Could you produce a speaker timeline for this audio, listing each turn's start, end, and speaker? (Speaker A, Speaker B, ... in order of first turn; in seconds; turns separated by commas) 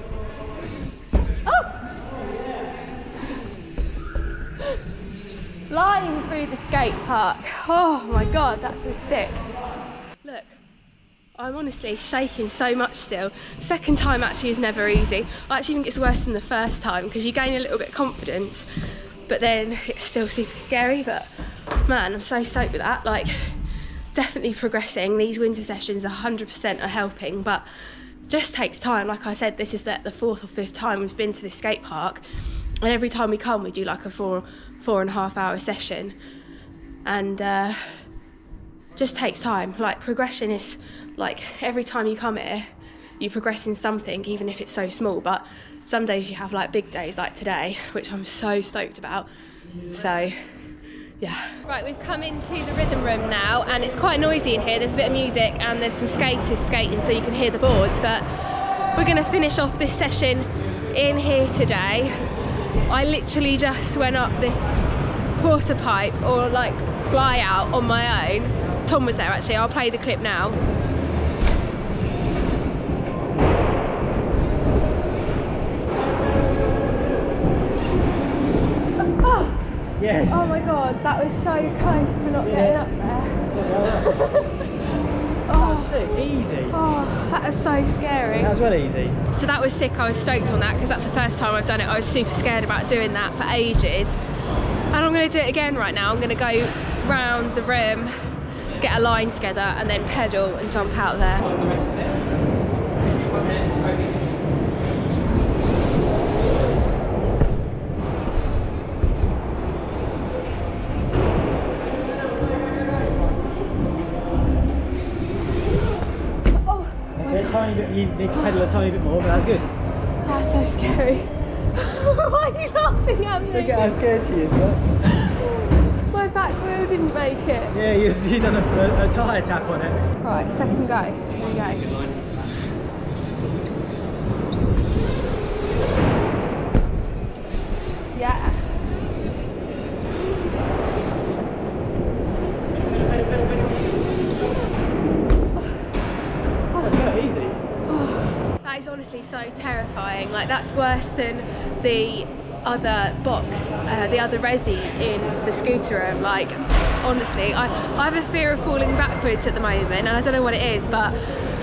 Speaker A: 1.5-1.8, Speaker A: 5.7-9.4, Speaker A: 10.2-10.5, Speaker A: 11.4-18.7, Speaker A: 19.3-21.3, Speaker A: 21.9-23.6, Speaker A: 24.1-27.7, Speaker A: 28.3-32.2, Speaker A: 32.8-36.2, Speaker A: 37.0-38.0, Speaker A: 39.0-49.3, Speaker A: 49.9-50.4, Speaker A: 51.2-58.2, Speaker A: 58.9-62.2, Speaker A: 62.9-64.8, Speaker A: 65.4-70.6, Speaker A: 79.1-79.6, Speaker B: 80.0-80.6, Speaker A: 80.3-84.7, Speaker B: 82.4-82.8, Speaker B: 83.5-84.2, Speaker A: 85.5-85.9, Speaker B: 85.5-86.8, Speaker A: 86.7-88.5, Speaker B: 88.3-89.2, Speaker A: 89.3-94.2, Speaker A: 94.9-98.1, Speaker A: 98.8-101.6, Speaker A: 116.6-117.6, Speaker B: 117.2-119.7, Speaker A: 118.3-118.6, Speaker A: 120.2-124.0, Speaker B: 123.5-125.3, Speaker A: 125.4-127.8, Speaker B: 127.7-130.1, Speaker A: 130.2-131.9, Speaker A: 138.1-138.7, Speaker A: 146.7-147.1, Speaker B: 146.8-147.6, Speaker A: 147.9-161.2